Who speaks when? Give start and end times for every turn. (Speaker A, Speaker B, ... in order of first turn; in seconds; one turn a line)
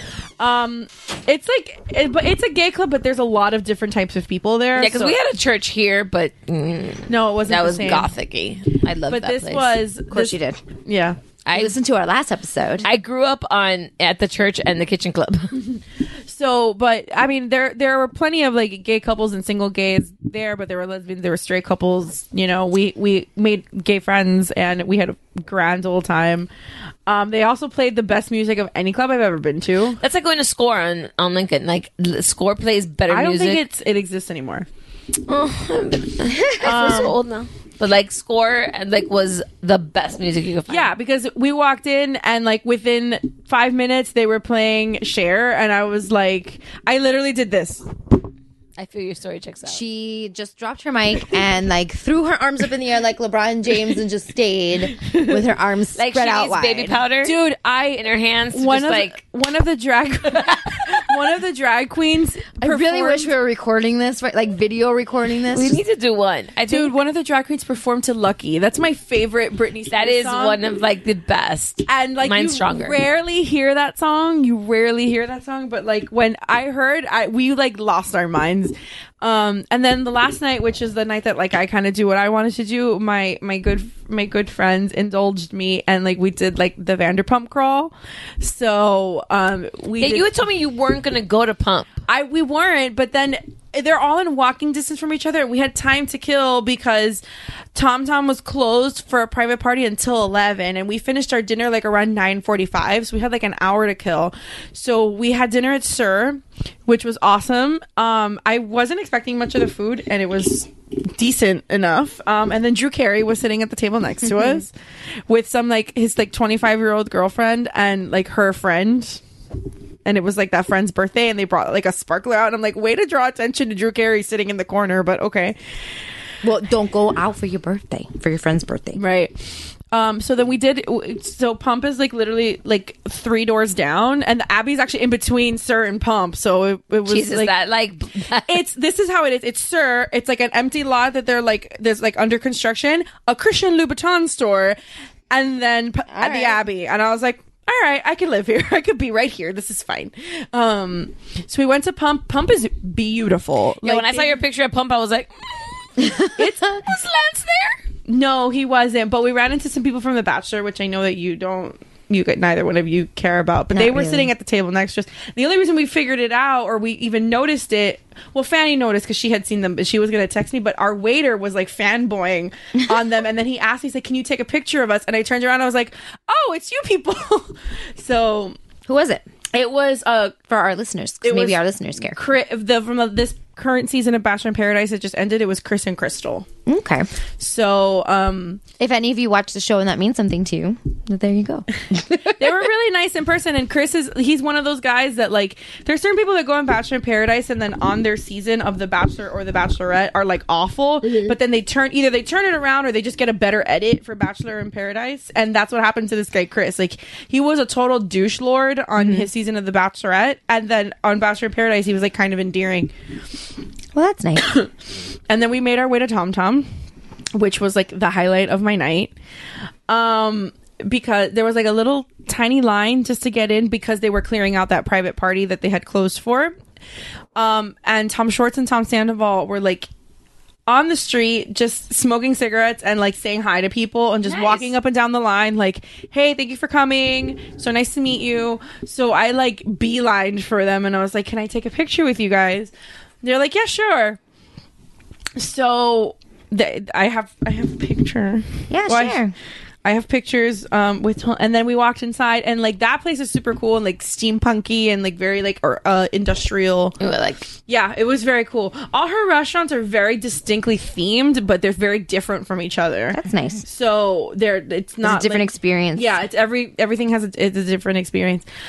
Speaker A: 0.4-5.2
Speaker B: 4.7-9.8
Speaker A: 7.1-8.1
Speaker A: 9.1-11.2
Speaker C: 10.1-10.6
Speaker B: 11.4-11.8
Speaker C: 11.5-12.8
Speaker B: 12.8-15.6
Speaker A: 16.3-26.5
Speaker A: 27.1-30.0
Speaker B: 30.0-33.6
Speaker A: 33.1-34.7
Speaker B: 35.3-40.9
Speaker C: 36.4-37.1
Speaker A: 36.6-37.2
Speaker A: 40.7-47.9
Speaker B: 48.8-49.8
Speaker C: 49.7-57.0
Speaker A: 55.0-55.4
Speaker B: 56.0-59.2
Speaker A: 57.2-57.8
Speaker A: 58.5-63.3
Speaker C: 62.6-65.8
Speaker B: 65.5-66.9
Speaker A: 66.7-70.6
Speaker B: 69.9-73.0
Speaker A: 71.9-90.3
Speaker B: 90.0-91.9
Speaker A: 92.1-97.2
Speaker A: 97.7-114.7
Speaker A: 115.3-119.2
Speaker A: 120.0-125.6
Speaker C: 126.4-129.0
Speaker A: 128.9-137.5
Speaker B: 137.1-138.6
Speaker A: 138.4-144.8
Speaker A: 145.3-154.4
Speaker C: 146.1-146.6
Speaker B: 153.8-156.0
Speaker C: 156.0-156.5
Speaker A: 156.2-178.6
Speaker C: 163.7-164.3
Speaker C: 178.9-179.2
Speaker A: 179.5-180.4
Speaker C: 180.5-182.2
Speaker A: 181.2-181.6
Speaker A: 182.1-186.5
Speaker C: 186.7-187.1
Speaker A: 187.4-188.6
Speaker C: 188.8-192.5
Speaker A: 192.2-212.9
Speaker C: 209.0-209.3
Speaker C: 213.9-214.6
Speaker A: 215.3-216.7
Speaker A: 217.3-219.1
Speaker A: 219.9-226.6
Speaker A: 227.3-229.9
Speaker A: 230.7-244.2
Speaker B: 234.2-234.7
Speaker A: 245.3-249.2
Speaker C: 248.7-249.3
Speaker A: 249.8-257.0
Speaker B: 257.0-257.5
Speaker A: 257.7-268.4
Speaker C: 263.1-263.6
Speaker C: 265.0-266.2